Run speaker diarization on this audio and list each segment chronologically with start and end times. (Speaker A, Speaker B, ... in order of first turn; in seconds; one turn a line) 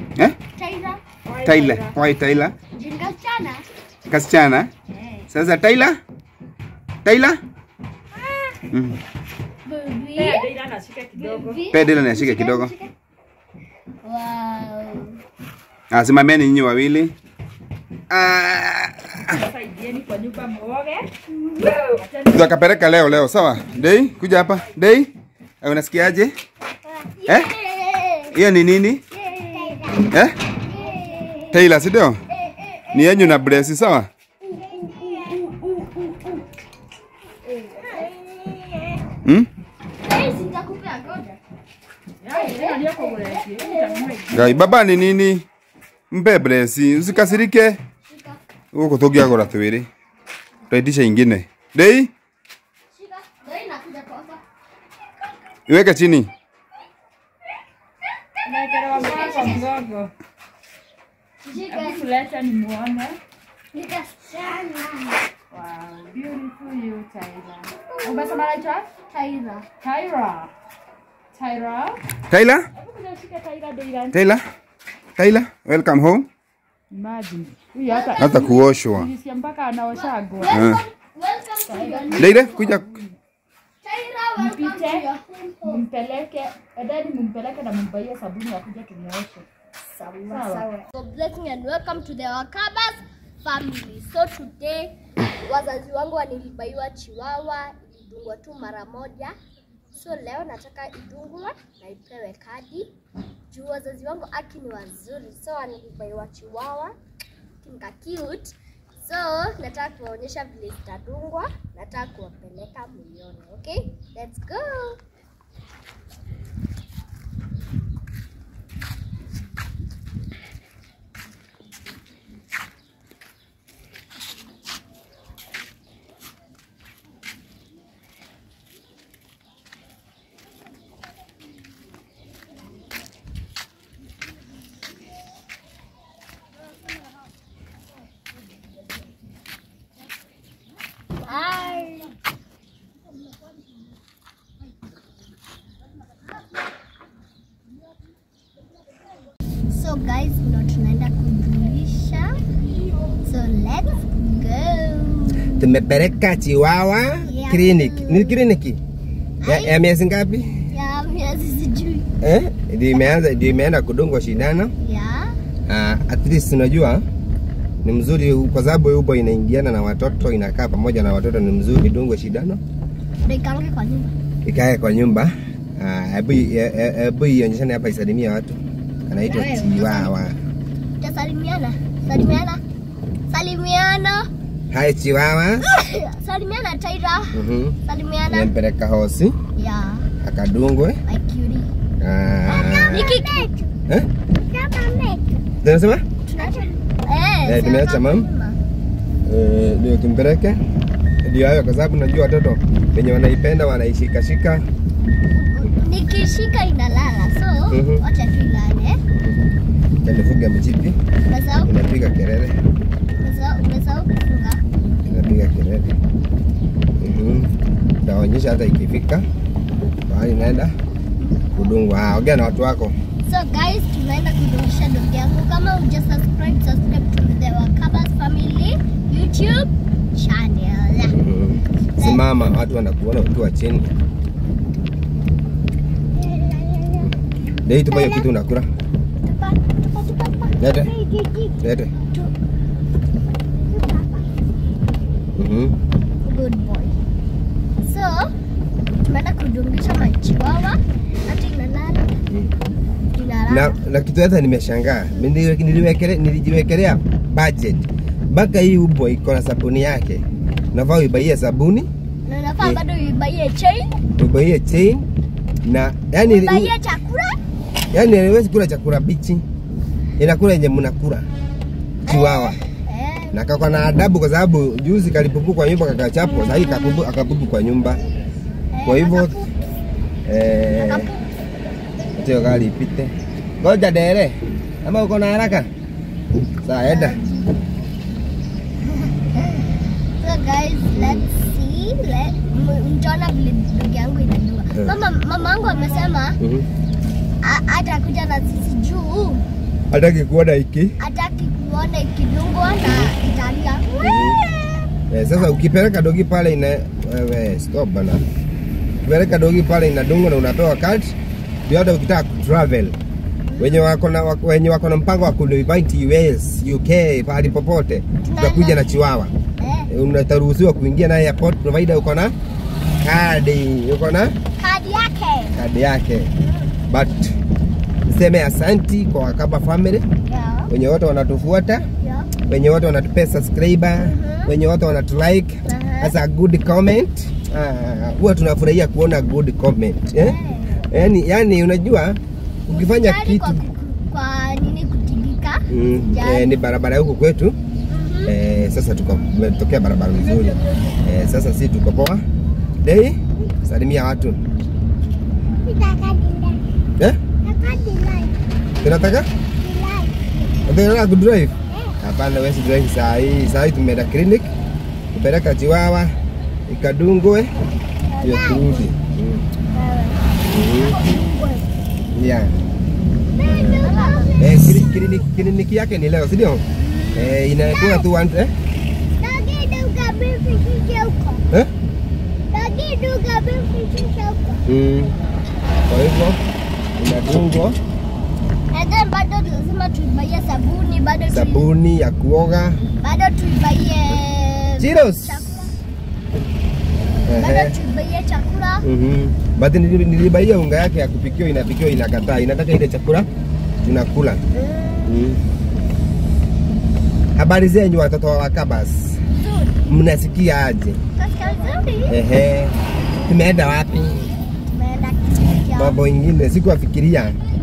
Speaker A: 0.6-1.0
Speaker B: 1.2-2.0
Speaker C: 1.4-2.5
Speaker A: 2.8-3.6
Speaker C: 4.1-4.7
Speaker A: 4.9-5.3
Speaker C: 5.3-6.0
Speaker C: 7.0-7.4
Speaker C: 8.7-9.0
Speaker A: 9.6-10.5
Speaker B: 10.2-11.7
Speaker A: 11.2-12.9
Speaker C: 11.7-12.7
Speaker A: 14.0-15.2
Speaker C: 15.9-17.1
Speaker C: 18.1-19.4
Speaker B: 19.3-21.1
Speaker A: 21.3-22.0
Speaker B: 21.6-22.5
Speaker C: 22.3-26.3
Speaker A: 26.9-28.4
Speaker C: 28.3-29.0
Speaker A: 29.1-31.7
Speaker C: 30.1-30.4
Speaker C: 31.5-32.2
Speaker A: 32.3-33.6
Speaker C: 32.9-34.1
Speaker A: 34.4-36.5
Speaker A: 37.6-39.0
Speaker A: 40.0-41.4
Speaker B: 42.2-44.6
Speaker A: 42.3-44.5
Speaker C: 44.3-45.5
Speaker C: 46.1-47.8
Speaker A: 48.1-48.4
Speaker C: 48.7-49.9
Speaker C: 50.7-52.1
Speaker A: 52.9-54.4
Speaker C: 55.7-56.3
Speaker B: 58.5-60.1
Speaker A: 58.9-59.8
Speaker A: 61.4-62.1
Speaker B: 61.6-63.2
Speaker A: 63.7-65.2
Speaker B: 65.5-69.0
Speaker A: 67.9-68.4
Speaker A: 69.0-69.7
Speaker B: 69.8-70.5
Speaker B: 71.3-72.0
Speaker C: 72.3-72.7
Speaker B: 72.8-74.2
Speaker C: 74.1-74.4
Speaker C: 75.2-76.3
Speaker B: 76.9-80.7
Speaker A: 77.9-78.4
Speaker C: 78.2-79.1
Speaker A: 80.0-82.8
Speaker C: 80.5-80.8
Speaker B: 81.7-83.1
Speaker C: 82.2-82.9
Speaker A: 83.8-85.8
Speaker B: 84.4-85.1
Speaker B: 85.6-89.5
Speaker A: 89.8-99.4
Speaker B: 90.3-90.7
Speaker A: 99.9-102.9
Speaker A: 103.5-107.0
Speaker A: 107.6-115.0
Speaker A: 141.2-142.1
Speaker A: 149.7-155.7
Speaker D: 155.6-158.8
Speaker A: 157.3-158.3
Speaker A: 159.4-159.8
Speaker D: 159.5-160.7
Speaker A: 160.7-162.1
Speaker D: 162.2-164.7
Speaker A: 164.8-165.3
Speaker D: 165.7-167.0
Speaker D: 167.8-172.6
Speaker A: 173.2-174.1
Speaker D: 174.4-180.3
Speaker A: 179.2-180.1
Speaker A: 181.0-182.6
Speaker A: 183.3-184.3
Speaker D: 184.7-185.7
Speaker A: 185.6-188.5
Speaker D: 187.3-187.8
Speaker D: 188.3-189.4
Speaker A: 189.6-190.1
Speaker D: 190.2-191.0
Speaker A: 191.1-191.7
Speaker D: 192.0-193.3
Speaker A: 192.5-193.7
Speaker A: 194.4-195.4
Speaker D: 195.6-196.1
Speaker A: 196.3-198.6
Speaker D: 197.4-198.3
Speaker D: 199.3-200.6
Speaker D: 201.2-204.7
Speaker A: 205.3-209.0
Speaker D: 207.7-208.0
Speaker D: 210.0-211.0
Speaker A: 211.3-211.7
Speaker D: 211.6-212.6
Speaker A: 213.2-214.6
Speaker D: 215.1-216.0
Speaker D: 217.0-219.3
Speaker D: 220.1-220.7
Speaker D: 221.5-223.0
Speaker A: 223.2-231.2
Speaker D: 231.1-233.9
Speaker A: 232.0-232.2
Speaker A: 236.2-237.1
Speaker D: 237.7-238.7
Speaker A: 237.9-238.3
Speaker A: 239.2-241.6
Speaker D: 240.6-240.9
Speaker D: 241.6-241.9
Speaker A: 243.7-244.3
Speaker D: 245.4-245.8
Speaker A: 246.2-247.0
Speaker A: 247.8-248.3
Speaker A: 249.1-252.2
Speaker A: 253.1-253.8
Speaker D: 253.5-261.9
Speaker A: 262.2-264.0
Speaker D: 264.2-265.1
Speaker D: 265.6-266.7
Speaker A: 266.2-267.4
Speaker D: 267.9-269.4
Speaker D: 270.2-271.3
Speaker A: 272.1-273.4
Speaker D: 272.1-272.6
Speaker D: 273.3-278.0
Speaker A: 278.7-279.5
Speaker D: 278.9-279.4
Speaker D: 280.3-281.1
Speaker A: 280.8-281.2
Speaker D: 282.2-285.7
Speaker D: 286.6-287.2
Speaker A: 286.9-287.6
Speaker A: 290.2-296.4
Speaker D: 290.9-291.2
Speaker D: 296.4-296.7
Speaker A: 297.4-299.4
Speaker D: 299.9-300.9
Speaker A: 301.0-304.4
Speaker D: 304.0-304.4
Speaker D: 305.1-308.2
Speaker D: 309.0-311.2
Speaker D: 311.7-313.0
Speaker A: 313.5-313.8
Speaker D: 313.6-319.3
Speaker A: 318.2-318.8
Speaker A: 319.6-319.9
Speaker D: 319.9-322.3
Speaker D: 323.0-324.4
Speaker A: 324.6-325.6
Speaker D: 325.5-326.3
Speaker A: 326.4-326.7
Speaker D: 326.9-327.3
Speaker D: 328.1-330.1
Speaker A: 330.3-330.7
Speaker D: 330.7-331.9
Speaker A: 331.9-332.3
Speaker D: 332.5-340.4
Speaker A: 334.0-334.5
Speaker A: 335.7-336.1
Speaker A: 340.2-340.9
Speaker D: 340.9-343.6
Speaker A: 342.7-346.5
Speaker D: 345.7-347.6
Speaker A: 347.9-348.4
Speaker D: 348.3-352.2
Speaker A: 350.3-351.0
Speaker D: 352.8-354.4
Speaker A: 355.6-356.6
Speaker A: 357.5-358.3
Speaker D: 358.8-359.3
Speaker A: 359.6-360.1
Speaker D: 360.7-364.5
Speaker D: 365.1-366.1
Speaker D: 366.7-367.5
Speaker A: 368.1-368.9
Speaker D: 368.2-369.4
Speaker A: 369.7-371.7
Speaker D: 370.5-371.0
Speaker D: 372.1-372.5
Speaker A: 373.3-375.2
Speaker D: 373.4-378.5
Speaker A: 376.8-378.0
Speaker A: 379.2-381.4
Speaker A: 382.5-384.6
Speaker D: 384.7-385.1
Speaker D: 385.9-386.4
Speaker D: 387.0-387.8
Speaker A: 388.7-391.6
Speaker D: 391.3-392.8
Speaker A: 393.0-395.7
Speaker D: 394.8-395.4
Speaker D: 397.3-397.8
Speaker A: 397.3-398.9
Speaker D: 398.8-403.3
Speaker D: 403.8-404.4
Speaker A: 404.5-405.2
Speaker D: 405.1-405.4
Speaker D: 407.4-409.2
Speaker A: 409.3-409.8
Speaker D: 409.9-411.0
Speaker A: 411.2-412.2
Speaker D: 412.1-412.7
Speaker D: 413.3-414.3
Speaker A: 414.7-416.0
Speaker D: 415.8-417.4